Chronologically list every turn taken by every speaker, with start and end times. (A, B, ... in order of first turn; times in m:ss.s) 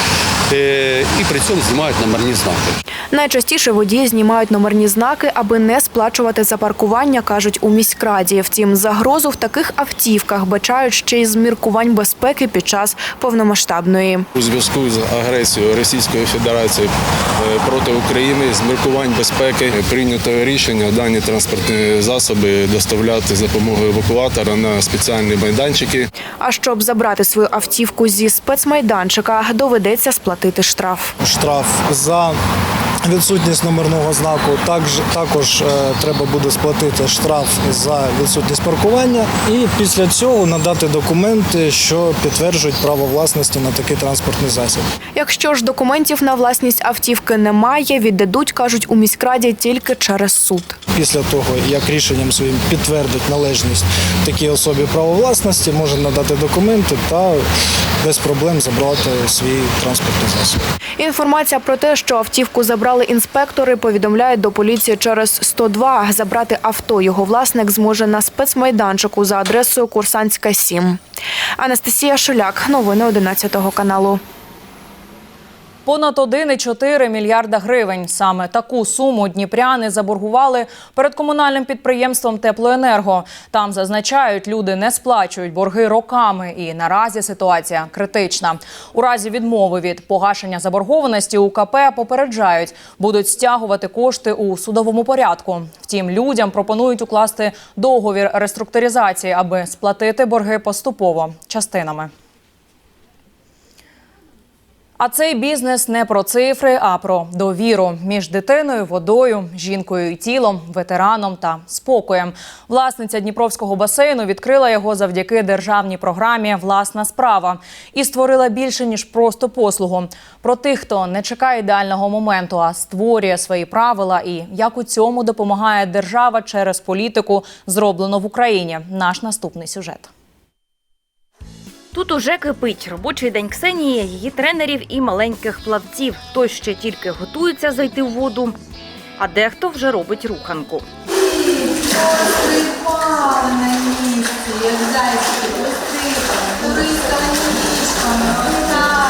0:00.5-0:02.8 A
0:03.1-0:14.3 B
0:14.4-0:26.1 C
0:26.4-0:31.1 B
0:31.2-0:32.4 D
0:33.1-0:44.9 D
0:45.2-0:50.8 B
0:50.9-0:57.4 D
0:58.0-1:00.6 D
1:01.0-1:11.0 B
1:11.6-1:14.2 B
1:15.8-1:42.1 E
1:45.0-2:10.1 E
2:11.9-2:18.6 F
2:19.2-2:20.8 F